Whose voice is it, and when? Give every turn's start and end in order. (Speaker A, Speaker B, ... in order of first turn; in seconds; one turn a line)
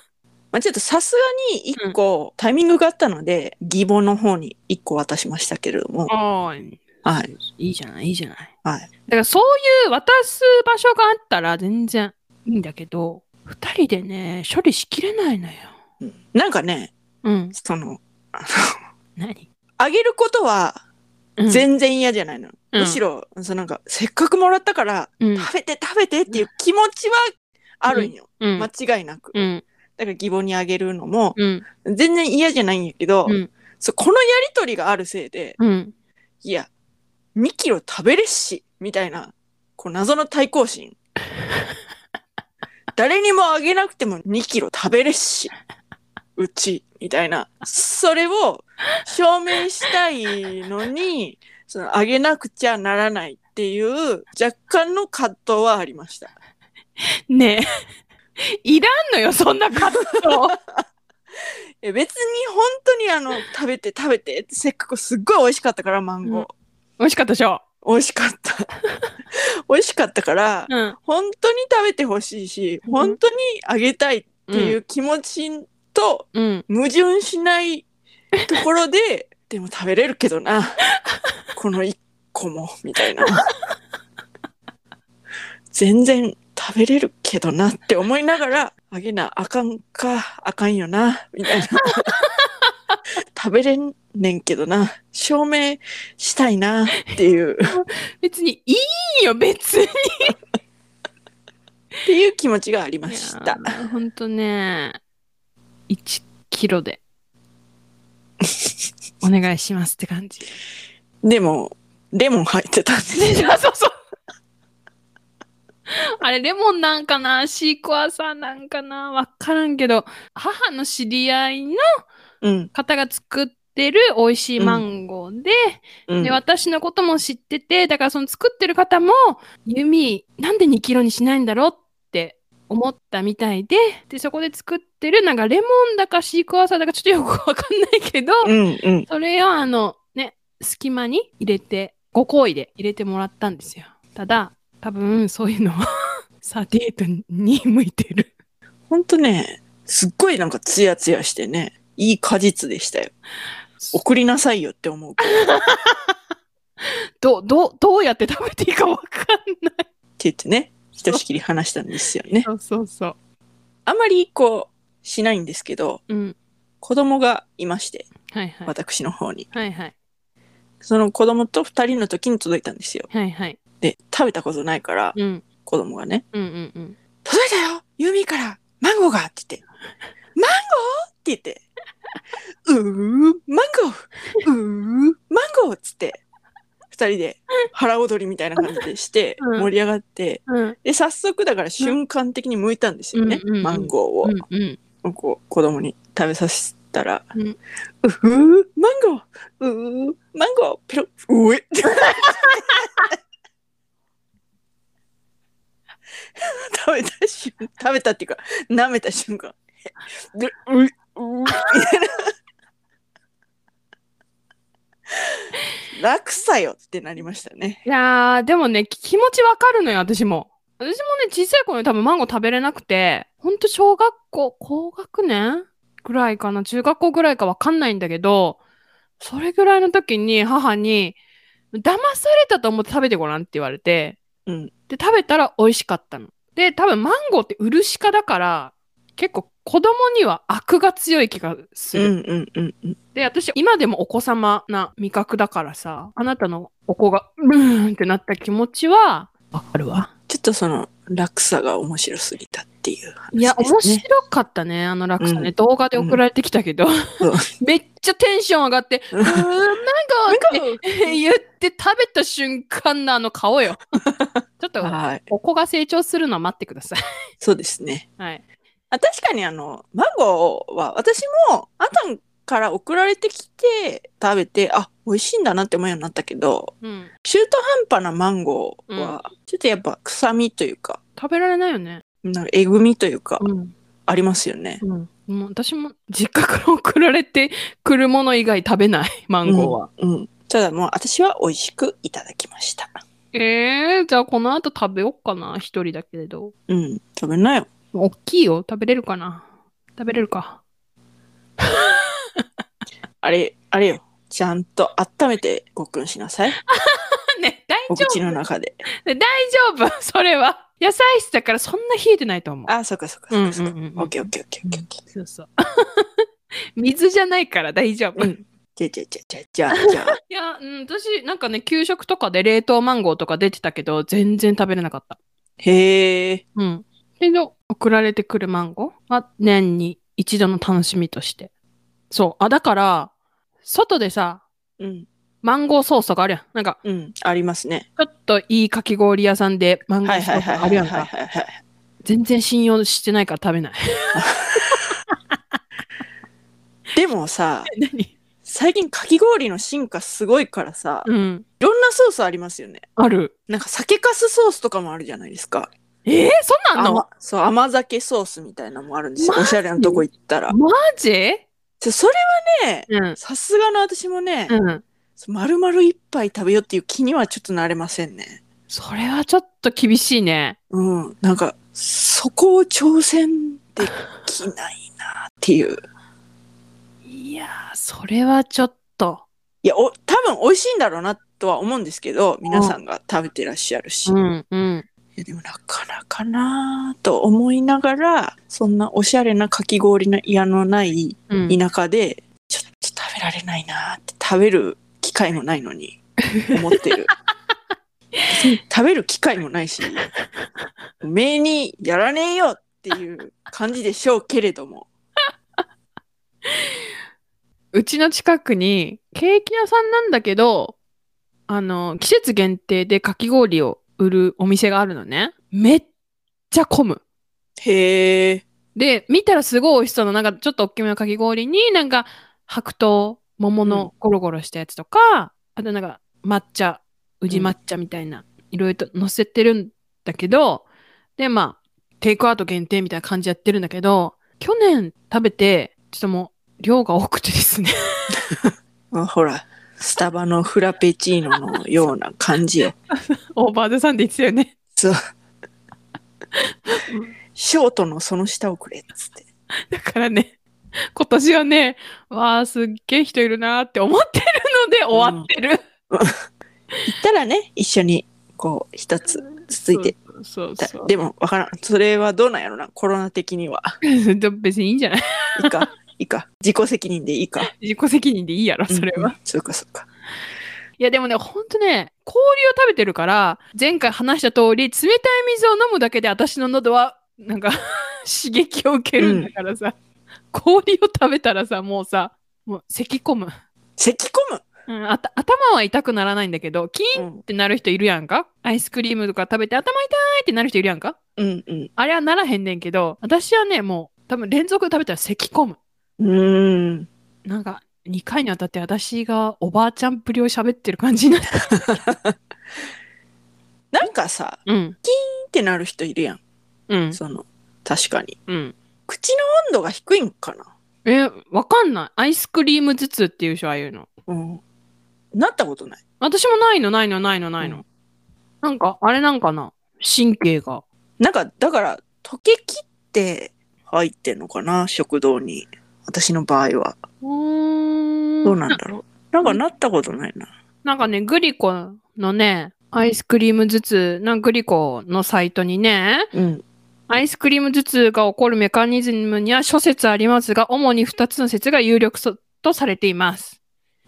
Speaker A: 0.5-6.1
Speaker B: 6.1-8.5
Speaker A: 7.0-7.3
Speaker B: 9.1-15.7
Speaker A: 16.0-16.9
Speaker B: 17.2-17.5
Speaker A: 17.5-18.8
Speaker B: 19.2-19.4
Speaker A: 19.8-20.8
Speaker B: 21.4-21.7
Speaker A: 21.5-27.2
Speaker B: 22.7-23.0
Speaker B: 25.2-25.5
Speaker A: 27.8-35.6
Speaker B: 27.9-28.7
Speaker B: 29.3-29.6
Speaker B: 31.4-31.6
Speaker B: 35.6-35.9
Speaker A: 36.4-36.7
Speaker A: 37.4-41.0
Speaker A: 43.0-45.5
Speaker A: 46.4-56.3
Speaker B: 57.3-57.7
Speaker B: 58.4-60.6
Speaker A: 60.2-60.8
Speaker A: 61.8-66.5
Speaker B: 67.0-67.6
Speaker A: 67.8-68.7
Speaker A: 69.7-77.8
Speaker B: 70.7-70.9
Speaker B: 72.9-73.2
Speaker B: 74.5-74.8
Speaker B: 76.3-76.6
Speaker A: 78.5-80.8
Speaker A: 81.5-83.5
Speaker A: 85.7-92.1
Speaker B: 91.8-92.5
Speaker A: 93.3-97.8
Speaker B: 97.7-100.3
Speaker A: 102.1-103.8
Speaker B: 103.1-105.0
Speaker B: 105.9-107.0
Speaker B: 109.2-110.5
Speaker A: 111.2-113.5
Speaker B: 113.1-113.9
Speaker B: 116.2-121.8
Speaker A: 122.4-122.7
Speaker B: 122.7-138.5
Speaker A: 124.6-124.8
Speaker A: 126.1-126.4
Speaker A: 138.4-139.1
Speaker B: 139.1-145.8
Speaker B: 146.4-148.3
Speaker A: 148.9-153.1
Speaker A: 153.9-155.5
Speaker B: 155.2-156.1
Speaker B: 157.2-159.8
Speaker A: 160.2-162.5
Speaker B: 160.9-161.2
Speaker B: 162.4-163.2
Speaker A: 163.8-166.0
Speaker B: 166.1-166.3
Speaker A: 166.8-168.1
Speaker B: 168.3-168.7
Speaker A: 168.7-169.5
Speaker B: 169.5-169.9
Speaker A: 170.8-173.1
Speaker B: 173.1-173.6
Speaker A: 173.8-176.2
Speaker B: 175.2-175.4
Speaker B: 176.3-177.0
Speaker A: 177.2-179.6
Speaker A: 180.3-181.6
Speaker A: 182.7-186.2
Speaker A: 186.9-194.4
Speaker B: 189.4-189.7
Speaker B: 190.5-190.8
Speaker B: 193.1-194.8
Speaker A: 195.0-197.2
Speaker A: 198.0-203.1
Speaker B: 202.1-202.5
Speaker A: 206.4-209.6
Speaker A: 210.2-212.3
Speaker A: 215.9-217.8
Speaker B: 217.8-228.6
Speaker B: 229.2-231.2
Speaker B: 231.7-234.2
Speaker B: 234.9-242.1
Speaker A: 241.9-243.0
Speaker B: 243.2-250.1
Speaker A: 250.3-254.0
Speaker B: 253.3-263.9
Speaker A: 255.2-256.2
Speaker A: 257.2-257.5
Speaker A: 259.1-259.5
Speaker A: 260.3-261.2
Speaker A: 264.2-265.3
Speaker B: 264.6-267.0
Speaker A: 267.4-268.1
Speaker A: 268.9-276.7
Speaker B: 276.8-277.1
Speaker A: 277.2-281.0
Speaker B: 278.9-279.2
Speaker B: 281.2-282.0
Speaker A: 282.2-283.4
Speaker B: 283.4-283.7
Speaker A: 284.1-284.8
Speaker B: 284.8-289.9
Speaker A: 289.4-293.0
Speaker B: 293.3-296.5
Speaker A: 296.7-297.7
Speaker B: 297.9-299.5
Speaker B: 300.0-300.6
Speaker B: 301.6-302.4
Speaker A: 303.2-306.6
Speaker B: 306.6-308.4
Speaker A: 307.9-308.8
Speaker B: 309.0-312.7
Speaker A: 312.7-315.0
Speaker B: 313.3-314.1
Speaker B: 314.6-316.1
Speaker B: 316.8-318.3
Speaker A: 318.1-320.2
Speaker B: 319.7-325.2
Speaker A: 325.6-326.4
Speaker B: 326.6-331.5
Speaker B: 332.1-333.1
Speaker B: 333.6-334.4
Speaker A: 334.8-335.1
Speaker B: 335.4-336.8
Speaker A: 336.8-337.9
Speaker B: 338.0-341.1
Speaker A: 340.0-341.6
Speaker B: 342.0-345.1
Speaker A: 344.1-344.8
Speaker A: 346.9-347.7
Speaker B: 347.7-348.1
Speaker A: 348.4-351.1
Speaker B: 351.0-351.4
Speaker A: 351.6-352.8
Speaker B: 353.0-353.3
Speaker A: 353.5-355.7
Speaker B: 356.0-357.0
Speaker A: 356.8-360.5
Speaker B: 359.2-361.4
Speaker A: 361.8-364.5
Speaker B: 362.9-363.2
Speaker B: 364.5-364.8
Speaker A: 365.2-368.4
Speaker B: 368.7-370.6
Speaker A: 370.7-375.8
Speaker B: 377.1-379.2
Speaker A: 379.6-384.2
Speaker B: 382.5-382.8
Speaker B: 384.1-384.9
Speaker A: 385.2-396.0
Speaker B: 391.3-391.6
Speaker B: 396.4-396.8
Speaker A: 396.5-397.1
Speaker A: 398.3-400.0
Speaker A: 401.0-404.9
Speaker B: 407.7-410.8
Speaker B: 411.5-415.9
Speaker B: 416.5-417.0
Speaker A: 417.6-418.4
Speaker B: 418.8-430.6
Speaker A: 423.6-423.9
Speaker A: 427.3-427.6
Speaker B: 431.2-438.1
Speaker A: 438.9-442.8
Speaker B: 442.9-444.5
Speaker B: 446.4-447.1
Speaker A: 447.4-449.2
Speaker B: 449.7-450.4
Speaker B: 450.9-455.6
Speaker A: 454.9-455.3
Speaker A: 455.9-456.1
Speaker A: 456.9-459.9
Speaker B: 459.4-460.9
Speaker A: 460.6-463.7
Speaker B: 463.8-465.6
Speaker A: 465.4-467.5
Speaker B: 467.4-469.1
Speaker A: 468.7-469.9
Speaker B: 470.8-479.8
Speaker A: 479.0-479.3
Speaker B: 480.3-483.3
Speaker A: 483.8-484.4
Speaker B: 484.7-491.0
Speaker A: 486.9-487.2
Speaker A: 491.2-491.7
Speaker B: 491.8-495.6
Speaker A: 496.0-496.9
Speaker B: 497.2-501.6
Speaker A: 501.6-502.1
Speaker A: 503.7-506.2
Speaker B: 504.5-504.8
Speaker B: 506.7-507.0
Speaker A: 506.9-508.1
Speaker B: 508.3-508.6
Speaker A: 508.9-510.5
Speaker B: 510.9-513.9
Speaker A: 514.1-514.4
Speaker A: 515.1-515.8
Speaker B: 516.0-517.6
Speaker B: 518.4-520.6
Speaker A: 521.0-526.8
Speaker B: 527.0-528.6
Speaker A: 528.2-530.3
Speaker B: 530.6-536.1
Speaker A: 536.1-536.4
Speaker B: 536.9-543.4